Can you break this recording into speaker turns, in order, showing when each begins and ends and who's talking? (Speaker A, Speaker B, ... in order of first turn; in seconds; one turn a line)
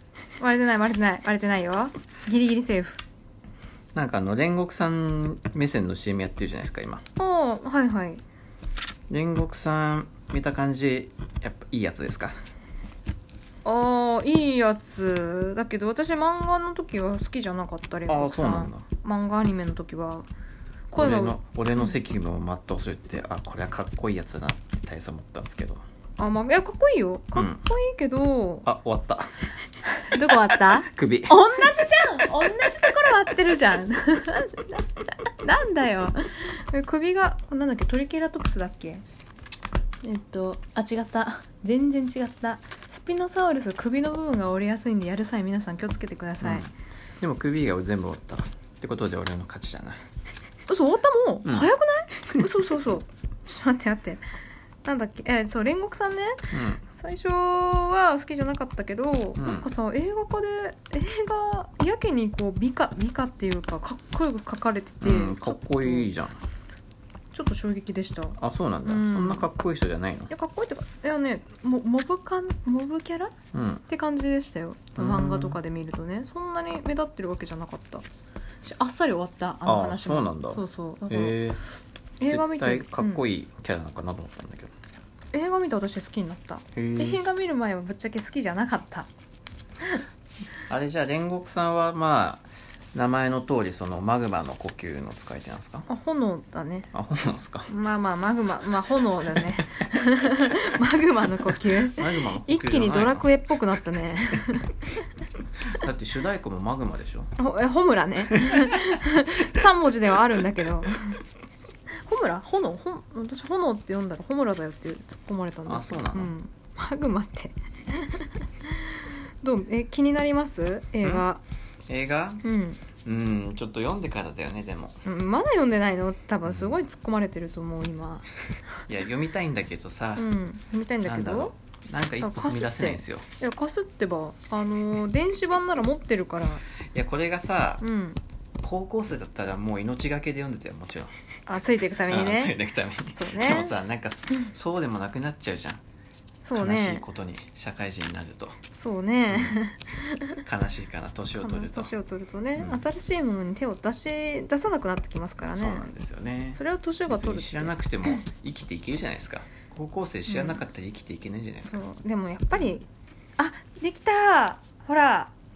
Speaker A: 0.4-3.0
Speaker B: 4.0-7.0
Speaker A: 7.2-8.2
Speaker B: 9.1-12.4
Speaker A: 13.6-20.3
Speaker B: 18.1-18.9
Speaker A: 20.9-21.9
Speaker B: 20.9-25.8
Speaker A: 26.2-28.6
Speaker B: 27.4-27.6
Speaker B: 28.6-29.5
Speaker A: 30.0-39.0
Speaker B: 30.8-31.4
Speaker A: 40.0-46.7
Speaker B: 46.4-46.7
Speaker B: 47.2-50.0
Speaker A: 50.7-54.2
Speaker B: 51.5-51.7
Speaker A: 54.8-66.1
Speaker B: 56.5-56.8
Speaker B: 59.4-59.7
Speaker B: 65.0-66.4
Speaker A: 67.3-69.5
Speaker B: 68.4-70.3
Speaker A: 70.3-73.3
Speaker B: 73.5-73.8
Speaker A: 73.9-78.0
Speaker B: 75.0-75.6
Speaker A: 78.6-81.4
Speaker B: 79.7-81.6
Speaker A: 82.2-83.2
Speaker B: 82.3-84.7
Speaker A: 85.3-89.1
Speaker B: 86.8-87.2
Speaker B: 90.7-95.9
Speaker A: 95.9-96.9
Speaker B: 96.9-97.7
Speaker A: 97.7-104.8
Speaker B: 101.8-103.3
Speaker B: 105.7-107.3
Speaker A: 107.4-111.2
Speaker A: 112.0-121.4
Speaker B: 115.7-116.3
Speaker B: 121.9-122.4
Speaker A: 122.4-122.8
Speaker B: 123.0-125.0
Speaker A: 125.0-128.3
Speaker B: 126.5-126.8
Speaker B: 128.9-130.2
Speaker A: 130.2-131.5
Speaker B: 131.0-133.2
Speaker A: 132.2-136.6
Speaker B: 136.9-137.8
Speaker A: 137.8-138.2
Speaker B: 138.6-141.1
Speaker A: 141.5-142.6
Speaker B: 142.0-145.8
Speaker A: 143.1-143.8
Speaker A: 146.4-147.0
Speaker B: 146.5-148.6
Speaker A: 148.7-150.4
Speaker B: 149.3-149.6
Speaker B: 150.4-151.9
Speaker A: 151.4-155.9
Speaker B: 152.6-152.8
Speaker B: 155.6-161.9
Speaker A: 156.5-157.7
Speaker A: 160.3-160.6
Speaker A: 161.6-162.9
Speaker A: 163.4-165.3